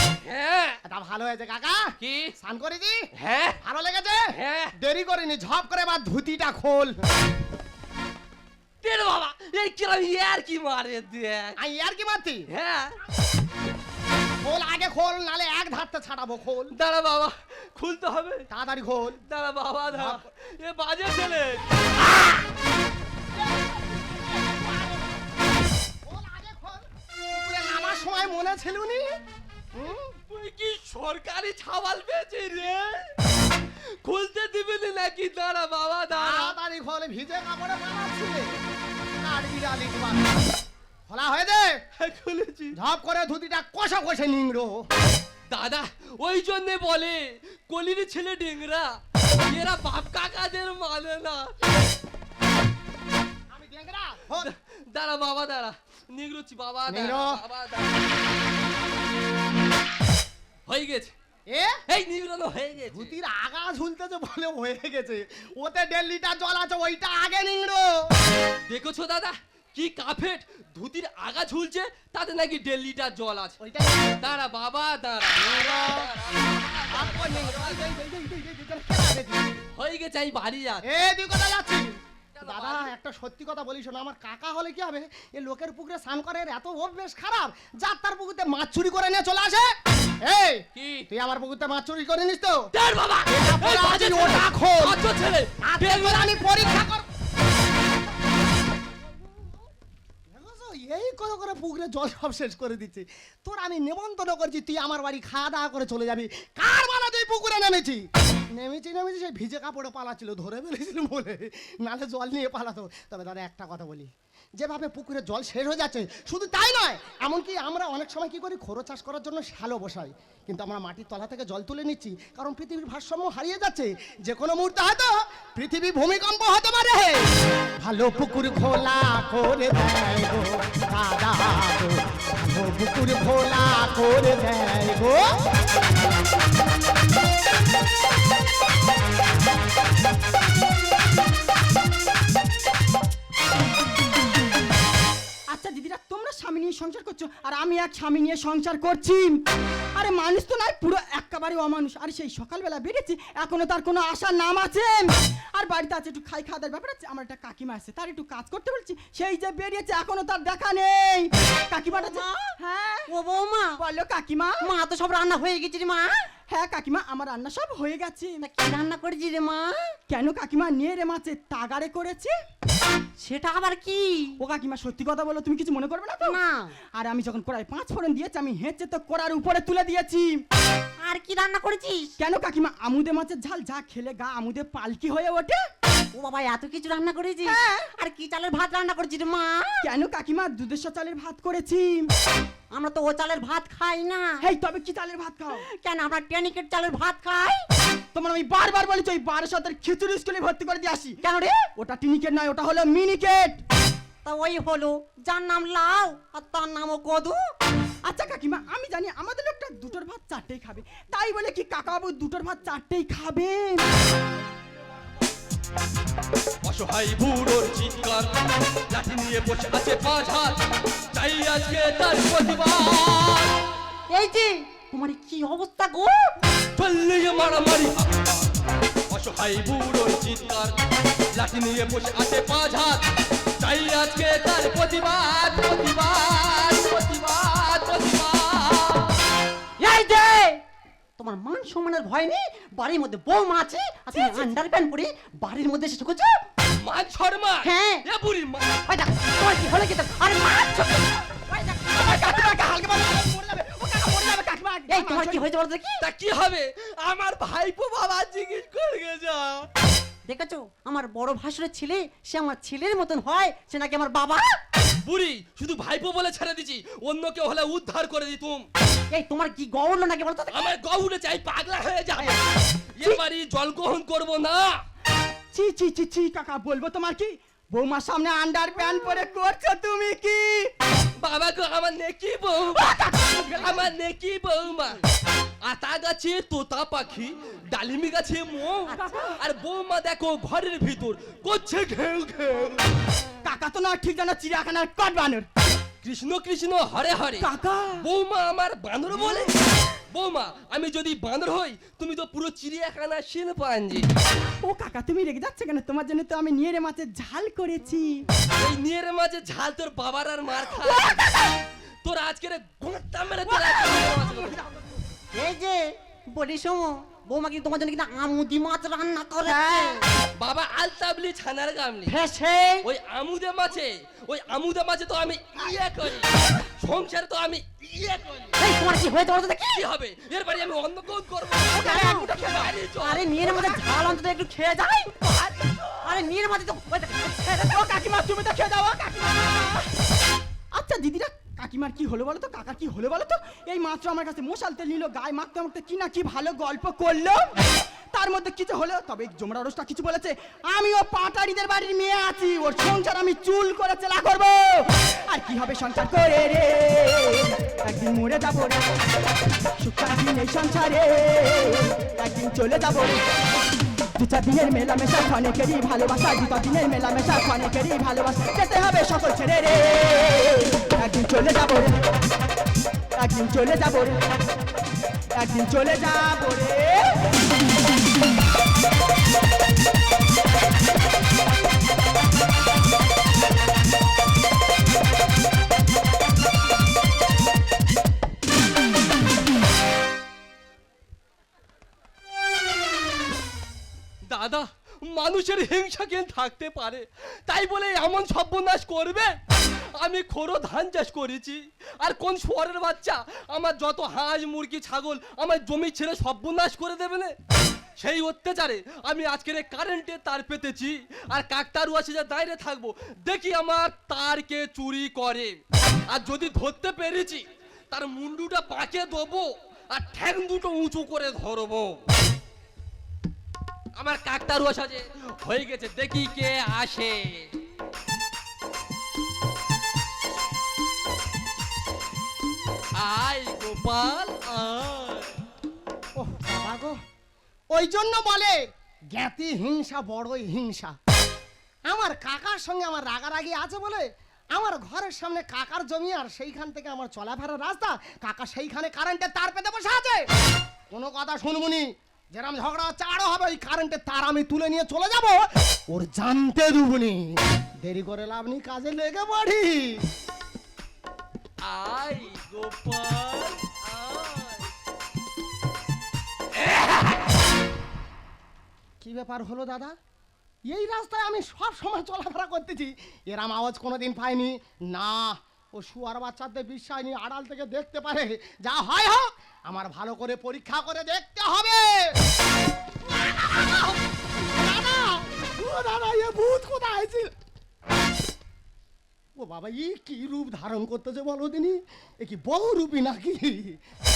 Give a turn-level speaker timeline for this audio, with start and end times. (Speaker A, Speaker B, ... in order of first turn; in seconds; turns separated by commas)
Speaker A: 0.2-0.8, Speaker B: 0.8-1.9, Speaker A: 2.0-2.3, Speaker B: 2.4-3.1, Speaker A: 3.2-3.6, Speaker B: 3.6-7.0, Speaker A: 4.3-4.7, Speaker A: 8.8-11.6, Speaker B: 11.6-12.5, Speaker A: 12.5-13.0, Speaker B: 14.4-16.8, Speaker A: 16.7-18.5, Speaker B: 18.5-19.2, Speaker A: 19.3-21.6, Speaker B: 19.9-20.2, Speaker B: 23.6-25.2, Speaker B: 26.1-29.1, Speaker B: 29.7-30.1, Speaker A: 30.3-33.1, Speaker A: 33.8-36.5, Speaker B: 36.1-38.5, Speaker B: 39.2-40.3, Speaker B: 41.1-41.8, Speaker A: 42.0-42.8, Speaker B: 42.8-44.9, Speaker A: 45.5-51.5, Speaker B: 53.5-54.5, Speaker A: 54.3-57.9, Speaker B: 56.9-57.4, Speaker A: 60.7-61.1, Speaker B: 61.5-61.8, Speaker A: 61.9-63.1, Speaker B: 62.9-68.1, Speaker A: 68.7-73.6, Speaker B: 73.6-74.3, Speaker A: 74.2-77.8, Speaker B: 75.4-76.1, Speaker B: 76.9-79.6, Speaker A: 79.8-80.8, Speaker B: 80.8-89.7, Speaker A: 82.3-82.9, Speaker B: 90.2-92.7, Speaker A: 90.8-91.1, Speaker A: 92.7-96.4, Speaker B: 93.3-95.0, Speaker B: 95.6-97.1, Speaker B: 100.3-127.2, Speaker B: 127.8-135.2, Speaker C: 145.5-149.4, Speaker C: 149.9-163.1, Speaker D: 161.9-162.5, Speaker D: 163.1-163.8, Speaker C: 163.8-164.6, Speaker D: 164.6-166.3, Speaker C: 166.5-168.4, Speaker D: 168.4-169.9, Speaker C: 170.1-172.3, Speaker D: 173.2-174.4, Speaker C: 174.4-176.4, Speaker D: 176.2-176.8, Speaker C: 177.0-180.4, Speaker D: 181.0-182.1, Speaker C: 182.2-185.6, Speaker D: 186.1-189.8, Speaker C: 187.5-187.9, Speaker C: 189.8-192.1, Speaker D: 192.7-194.4, Speaker C: 194.4-195.7, Speaker D: 195.6-197.7, Speaker C: 198.1-201.2, Speaker D: 201.2-201.7, Speaker C: 201.8-203.6, Speaker D: 204.2-207.4, Speaker C: 208.1-213.9, Speaker A: 216.6-218.3, Speaker A: 218.9-220.6, Speaker A: 221.1-223.6, Speaker D: 224.1-226.4, Speaker A: 226.8-230.8, Speaker A: 231.3-233.0, Speaker A: 233.6-239.2, Speaker D: 239.8-240.6, Speaker D: 241.2-246.4, Speaker C: 244.1-244.5, Speaker A: 246.8-248.8, Speaker D: 247.6-248.0, Speaker D: 248.9-252.4, Speaker C: 252.0-255.4, Speaker D: 254.9-256.1, Speaker A: 256.0-259.7, Speaker D: 260.3-264.6, Speaker A: 265.1-268.7, Speaker D: 269.1-270.6, Speaker A: 270.5-274.8, Speaker C: 275.5-280.7, Speaker A: 281.2-283.0, Speaker C: 282.8-283.9, Speaker A: 283.6-285.0, Speaker A: 285.6-292.8, Speaker D: 288.9-289.4, Speaker C: 293.4-295.5, Speaker A: 296.0-297.5, Speaker C: 297.4-298.0, Speaker A: 298.0-304.1, Speaker C: 304.6-308.3, Speaker A: 308.6-311.2, Speaker C: 310.8-311.5, Speaker A: 312.0-314.6, Speaker D: 315.3-320.0, Speaker C: 319.5-320.0, Speaker A: 320.4-322.2, Speaker D: 322.1-322.9, Speaker A: 322.8-328.5, Speaker D: 328.6-329.8, Speaker A: 329.7-333.3, Speaker D: 331.7-332.3, Speaker C: 331.7-332.7, Speaker D: 333.0-335.3, Speaker C: 333.4-333.9, Speaker D: 336.0-337.8, Speaker C: 337.7-339.9, Speaker C: 340.7-358.9, Speaker C: 359.8-363.2, Speaker C: 364.2-372.0, Speaker C: 373.2-374.2, Speaker C: 375.4-377.2, Speaker A: 394.2-407.4, Speaker A: 408.0-422.0, Speaker A: 424.0-427.5, Speaker A: 432.9-435.4, Speaker B: 436.2-437.0, Speaker B: 437.7-438.6, Speaker B: 439.1-441.0, Speaker B: 441.9-450.3, Speaker B: 450.9-460.1, Speaker A: 461.6-464.6, Speaker A: 466.7-466.9, Speaker B: 469.0-469.9, Speaker B: 470.7-482.1, Speaker B: 483.1-487.3, Speaker B: 489.4-493.8